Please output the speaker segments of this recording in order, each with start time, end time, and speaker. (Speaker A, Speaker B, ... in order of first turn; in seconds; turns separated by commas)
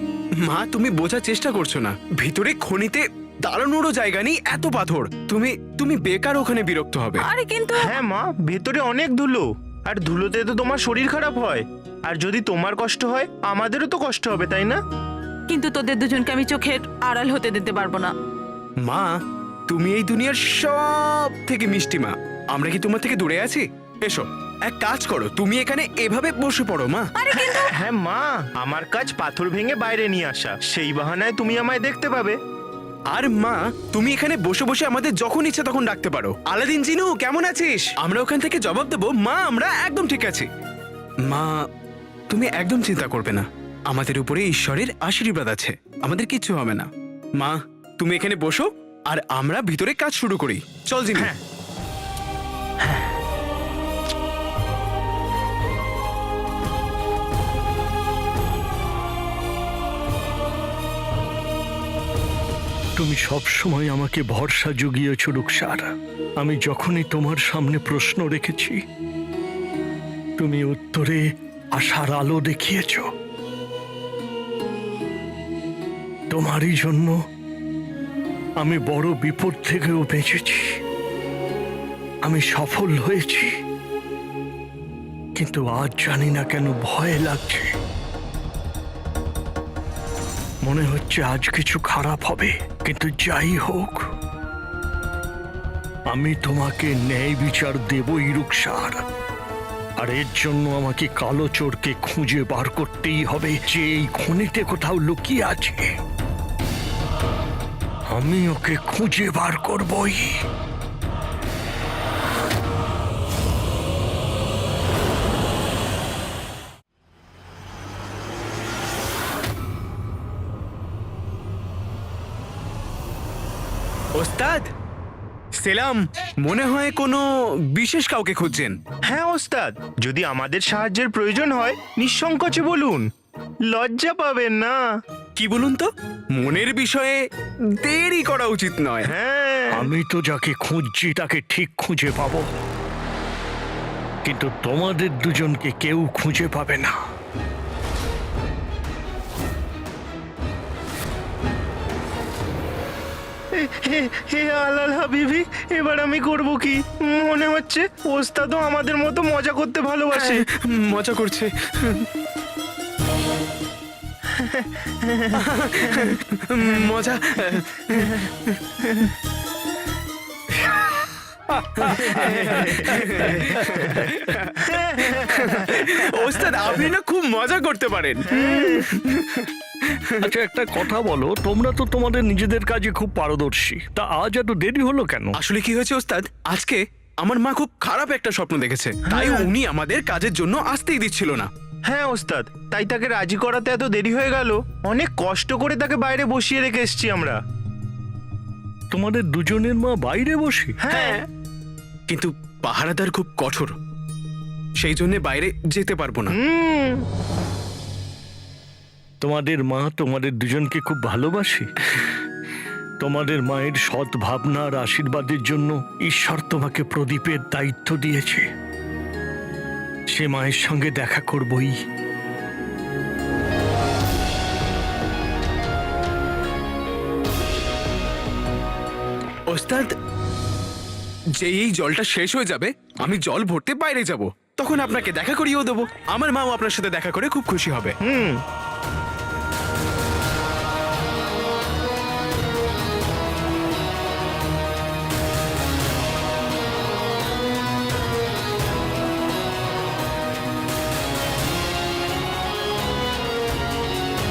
Speaker A: 0.4-7.2, Speaker B: 7.2-8.0, Speaker C: 7.8-14.8, Speaker B: 15.5-18.1, Speaker A: 18.8-19.2, Speaker A: 19.7-27.1, Speaker B: 27.2-27.7, Speaker C: 27.3-32.4, Speaker A: 33.1-40.5, Speaker A: 41.3-41.5, Speaker A: 42.3-51.3, Speaker D: 63.0-68.8, Speaker D: 70.4-71.2, Speaker D: 71.8-73.1, Speaker D: 76.3-77.2, Speaker D: 78.6-80.6, Speaker D: 82.2-83.5, Speaker D: 85.4-87.7, Speaker D: 90.6-94.0, Speaker D: 96.1-99.0, Speaker D: 100.0-105.9, Speaker D: 108.1-110.3, Speaker A: 124.2-124.7, Speaker A: 125.6-128.8, Speaker C: 129.1-133.1, Speaker C: 133.7-134.8, Speaker A: 135.4-137.2, Speaker A: 137.8-139.1, Speaker C: 139.0-139.9, Speaker D: 139.7-142.6, Speaker D: 144.2-147.0, Speaker C: 153.5-160.5, Speaker A: 160.1-162.1, Speaker C: 164.4-165.4, Speaker A: 165.3-168.6, Speaker C: 168.8-169.1, Speaker D: 171.6-174.3, Speaker A: 171.8-180.2, Speaker C: 172.1-174.0, Speaker C: 174.6-175.8, Speaker C: 178.3-178.9, Speaker D: 180.2-185.4, Speaker A: 185.3-191.5, Speaker C: 189.1-189.5, Speaker C: 191.9-197.4, Speaker D: 198.9-200.8, Speaker C: 200.8-201.2, Speaker A: 200.9-201.2, Speaker A: 202.1-203.8, Speaker A: 204.8-206.3, Speaker C: 206.3-207.0, Speaker D: 209.2-211.7, Speaker D: 213.0-218.4, Speaker D: 220.1-221.7, Speaker A: 229.5-229.9, Speaker A: 231.4-238.0, Speaker C: 238.0-238.4